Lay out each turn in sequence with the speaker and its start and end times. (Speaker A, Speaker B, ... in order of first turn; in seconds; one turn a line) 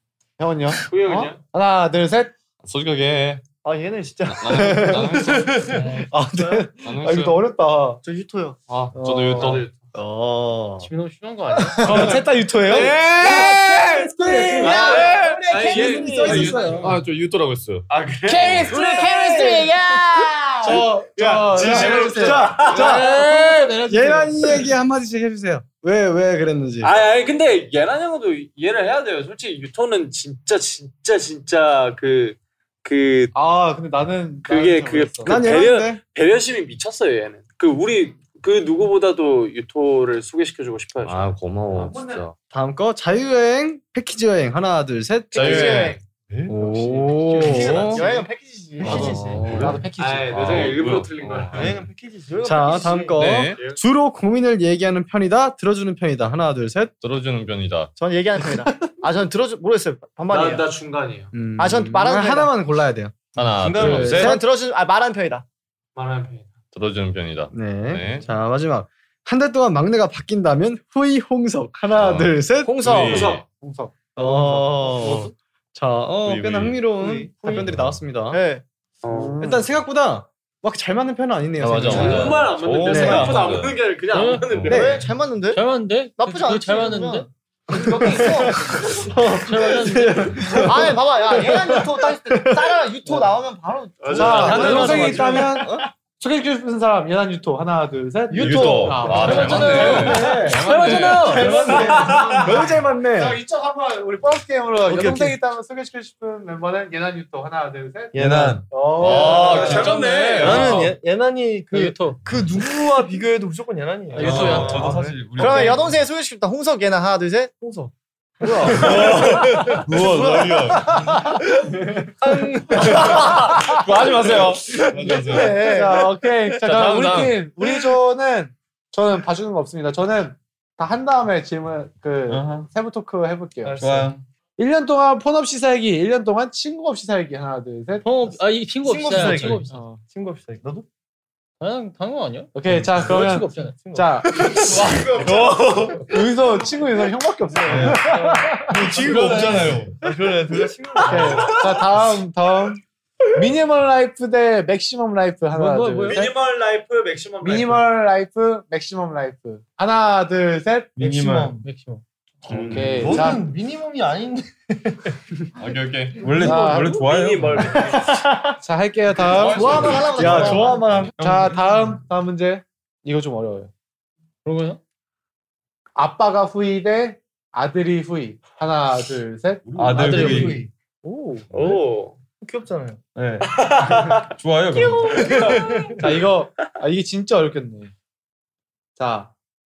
Speaker A: 0.4-2.3
Speaker B: 0.9-1.4
Speaker C: 2.6-3.4
Speaker D: 3.6-5.7
Speaker C: 4.2-5.6
Speaker E: 5.7-6.1
Speaker A: 5.8-8.0
Speaker D: 6.3-6.7
Speaker C: 6.7-7.4
Speaker D: 8.0-8.6
Speaker C: 8.7-9.7
Speaker A: 8.9-9.6
Speaker B: 9.3-9.7
Speaker F: 9.9-10.9
Speaker E: 10.8-12.3
Speaker A: 11.8-15.5
Speaker F: 11.8-17.0
Speaker D: 13.2-13.7
Speaker D: 14.2-16.6
Speaker B: 14.6-16.8
Speaker C: 16.2-17.9
Speaker B: 17.9-18.6
Speaker A: 18.2-19.7
Speaker D: 18.7-20.9
Speaker F: 18.7-19.7
Speaker A: 20.6-23.8
Speaker F: 20.7-26.9
Speaker B: 21.3-23.0
Speaker E: 22.7-24.7
Speaker B: 26.8-33.3
Speaker A: 33.3-35.6
Speaker B: 34.5-41.3
Speaker F: 35.2-36.0
Speaker C: 41.0-42.4
Speaker F: 41.6-45.9
Speaker A: 41.8-42.2
Speaker C: 45.3-48.2
Speaker D: 45.3-46.0
Speaker F: 46.5-48.0
Speaker D: 47.4-49.7
Speaker F: 48.8-49.8
Speaker C: 48.8-51.9
Speaker A: 49.5-50.6
Speaker B: 50.0-51.7
Speaker G: 51.5-53.2
Speaker F: 52.4-56.9
Speaker C: 53.1-53.6
Speaker C: 57.0-57.9
Speaker D: 57.9-60.6
Speaker B: 60.3-61.3
Speaker F: 61.3-64.4
Speaker D: 61.6-62.5
Speaker C: 63.3-64.4
Speaker B: 63.5-64.2
Speaker D: 64.1-65.4
Speaker B: 66.0-66.5
Speaker C: 66.7-68.2
Speaker F: 67.5-73.4
Speaker C: 71.9-73.5
Speaker B: 72.9-73.4
Speaker A: 73.6-75.1
Speaker F: 74.1-78.4
Speaker C: 76.2-76.9
Speaker G: 77.2-77.5
Speaker C: 77.6-78.0
Speaker D: 78.3-78.6
Speaker B: 79.0-79.4
Speaker A: 79.1-79.7
Speaker F: 79.4-83.6
Speaker C: 81.6-83.8
Speaker B: 81.8-85.0
Speaker D: 81.9-82.2
Speaker E: 84.1-84.6
Speaker C: 84.5-84.9
Speaker F: 84.6-85.0
Speaker D: 84.7-88.9
Speaker E: 85.5-87.3
Speaker F: 87.7-93.2
Speaker E: 89.2-90.6
Speaker D: 90.6-95.6
Speaker B: 94.0-95.3
Speaker F: 94.1-95.9
Speaker A: 94.1-100.6
Speaker D: 98.3-100.1
Speaker C: 98.3-101.5
Speaker F: 99.0-103.4
Speaker E: 99.4-102.1
Speaker A: 101.1-102.4
Speaker D: 101.5-102.0
Speaker G: 101.7-102.4
Speaker A: 103.1-108.2
Speaker D: 104.9-105.3
Speaker G: 108.1-115.7
Speaker H: 108.1-108.6
Speaker C: 108.3-110.8
Speaker A: 108.7-109.9
Speaker B: 109.0-110.7
Speaker F: 109.1-110.4
Speaker D: 109.4-109.7
Speaker D: 110.4-110.9
Speaker E: 111.7-112.2
Speaker E: 114.1-115.0
Speaker H: 114.2-115.9
Speaker B: 114.4-114.9
Speaker C: 114.8-115.1
Speaker D: 115.4-117.6
Speaker G: 117.6-117.9
Speaker G: 118.4-119.8
Speaker A: 118.6-121.4
Speaker F: 118.6-119.1
Speaker D: 118.7-119.1
Speaker C: 118.7-121.2
Speaker G: 122.2-123.3
Speaker A: 122.7-134.1
Speaker C: 123.0-125.8
Speaker H: 123.6-124.6
Speaker D: 125.0-126.1
Speaker C: 126.6-127.5
Speaker H: 132.3-132.7
Speaker G: 133.6-134.2
Speaker H: 133.7-134.2
Speaker A: 134.6-138.4
Speaker E: 138.0-139.8
Speaker D: 138.8-139.5
Speaker G: 138.8-140.8
Speaker A: 139.1-140.0
Speaker E: 141.6-144.1
Speaker A: 142.5-145.3
Speaker H: 142.7-143.1
Speaker C: 142.7-143.2
Speaker G: 144.4-145.7
Speaker C: 144.9-145.5
Speaker A: 146.0-149.8
Speaker C: 147.7-148.1
Speaker G: 147.7-151.7
Speaker C: 148.7-150.0
Speaker A: 151.0-152.8
Speaker A: 153.3-156.3
Speaker E: 155.5-156.2
Speaker B: 156.1-157.9
Speaker A: 157.4-161.0
Speaker H: 161.0-161.6
Speaker G: 161.0-161.6
Speaker E: 161.6-162.0
Speaker G: 162.5-164.6
Speaker F: 162.5-163.1
Speaker A: 162.5-163.4
Speaker C: 162.6-163.1
Speaker C: 165.6-166.3
Speaker H: 166.2-167.8
Speaker A: 166.3-167.0
Speaker B: 166.9-168.0
Speaker D: 167.9-168.5
Speaker A: 168.6-173.7
Speaker C: 169.3-170.3
Speaker D: 169.4-171.1
Speaker F: 169.8-171.1
Speaker H: 171.2-172.0
Speaker E: 174.4-174.8
Speaker A: 175.9-180.5
Speaker C: 179.7-180.0
Speaker H: 179.8-180.6
Speaker G: 179.8-180.7
Speaker E: 179.9-180.7
Speaker B: 181.5-182.2
Speaker G: 182.3-183.0
Speaker H: 183.1-183.7
Speaker B: 183.5-184.2
Speaker H: 184.3-185.6
Speaker B: 184.8-186.3
Speaker A: 186.0-187.9
Speaker A: 189.0-189.3